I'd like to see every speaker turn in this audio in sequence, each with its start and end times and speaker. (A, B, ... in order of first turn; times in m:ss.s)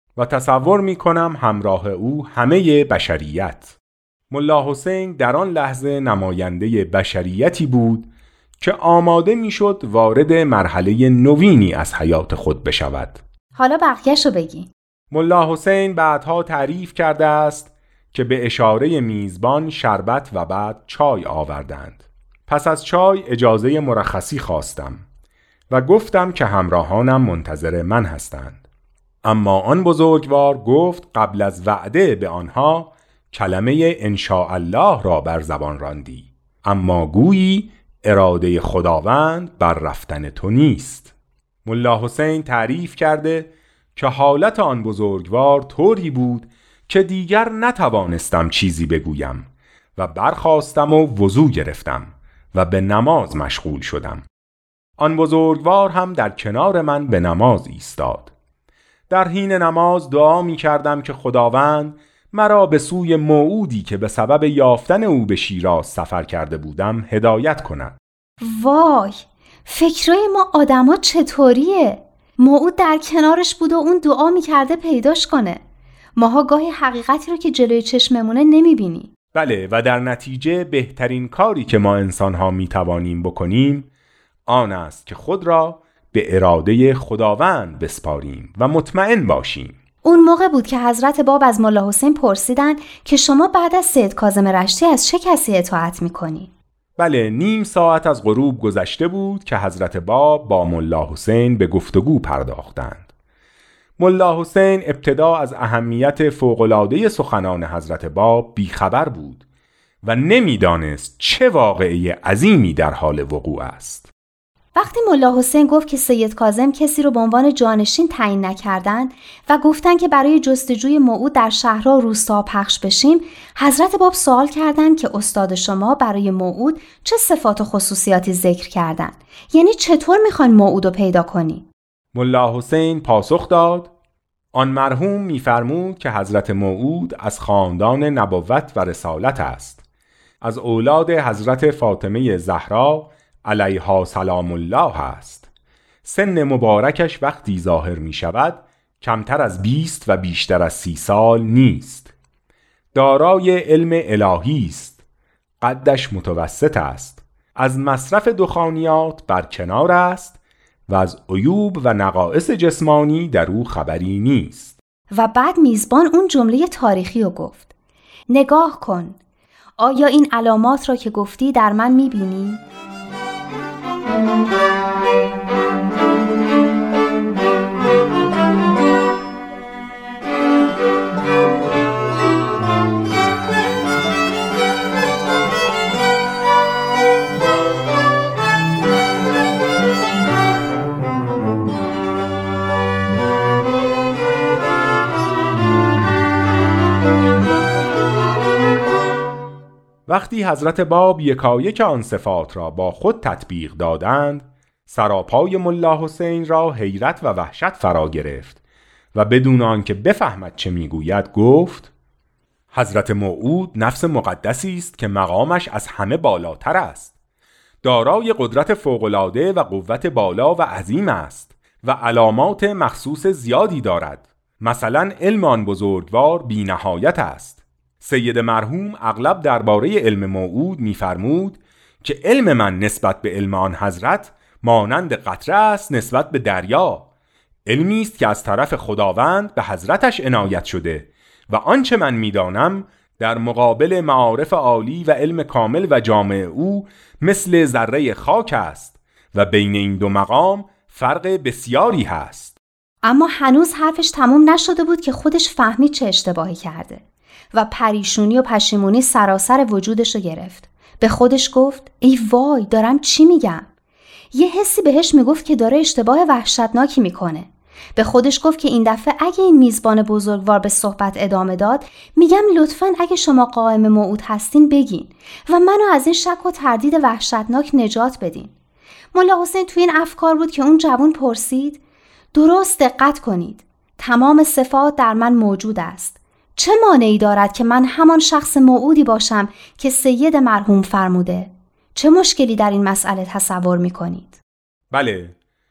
0:00.2-0:03.7 A
0:04.3-0:13.2 A
0:13.5-0:14.7 B
0:15.1-0:25.0 A
0:25.7-0:28.6 A
0:29.2-0:41.1 A
0:41.6-0:54.2 A
0:55.0-0:58.3 A
0:59.1-1:08.0 A
1:08.4-1:15.6 B
1:16.2-1:19.1 B
1:19.3-1:23.9 A
1:24.5-1:29.8 A
1:30.0-1:36.5 B
1:37.0-1:43.1 A
1:44.0-1:49.4 A
1:50.0-1:54.1 A
1:54.7-2:11.7 B
2:12.1-2:13.9 A
2:14.5-2:19.8 A
2:20.4-2:25.4 A
2:26.0-2:32.1 A
2:32.9-2:35.0 A
2:35.6-2:40.4 A
2:40.9-2:44.8 A
2:45.1-2:47.7 B
2:48.3-2:49.2 B
2:49.8-2:52.6 B
3:20.1-3:28.6 A
3:29.1-3:31.9 A
3:32.7-3:37.1 A
3:37.8-3:57.1 A
3:57.6-4:12.6 A
4:13.0-4:23.7 B
4:24.3-4:38.5 B
4:39.1-4:41.8 B
4:42.3-4:54.4 B
4:54.9-4:55.3 A